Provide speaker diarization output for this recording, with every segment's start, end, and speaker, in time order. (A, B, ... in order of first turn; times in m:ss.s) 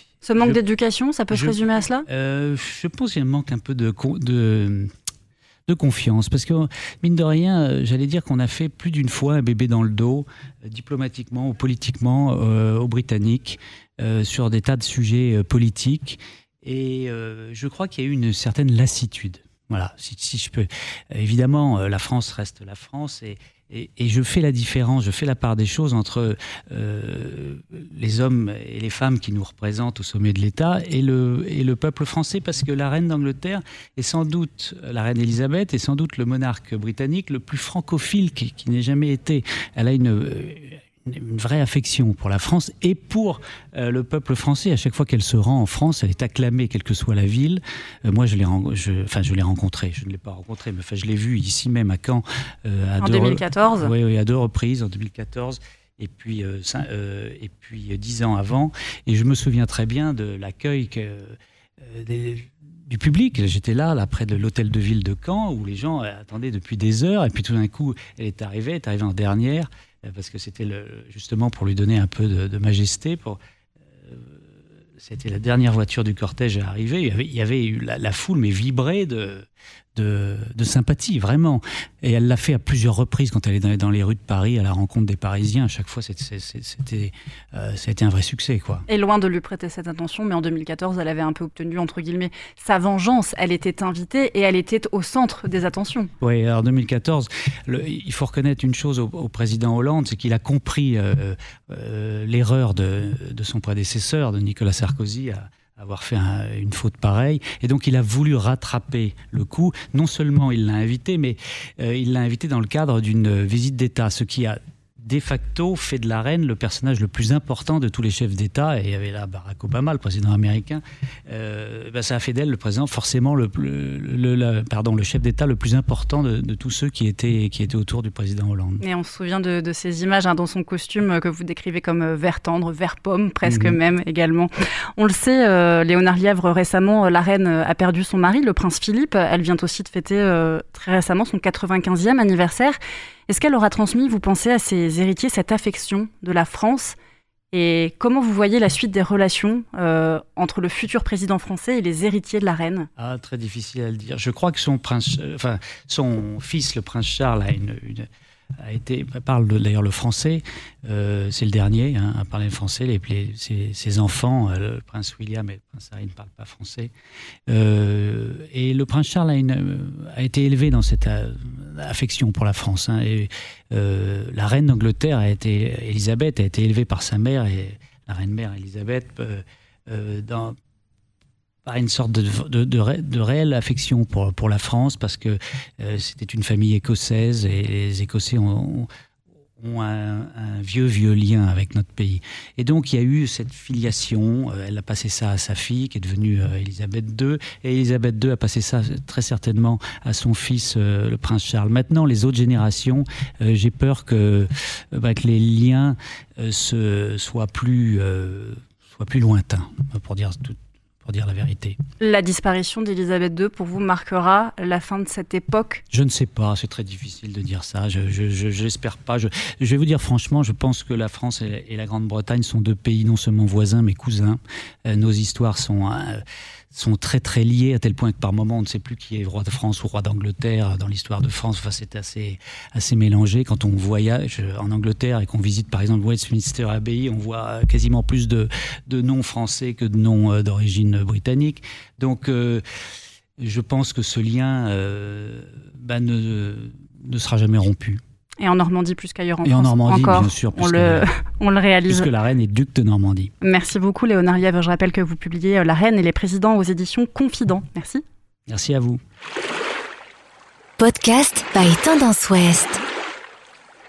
0:00.2-0:02.0 A
0:01.3-0:04.9 B
0:05.7-1:13.4 B
0:53.0-0:53.9 A
1:14.0-1:14.4 B
1:15.0-1:28.8 B
1:28.9-1:36.1 A
1:36.2-2:08.8 B
2:08.8-2:27.0 A
2:13.4-2:13.8 B
2:27.5-2:32.9 A
2:33.0-2:46.9 B
2:47.5-3:00.6 B
3:01.6-3:08.9 B
3:09.6-3:31.8 B
3:32.0-3:35.8 A
3:35.9-4:02.6 B
4:03.4-4:08.0 B
4:08.4-4:12.1 A
4:09.4-4:11.1 B
4:11.9-4:13.3 B
4:13.4-4:18.0 A
4:18.5-4:19.0 B
4:20.8-4:22.8 C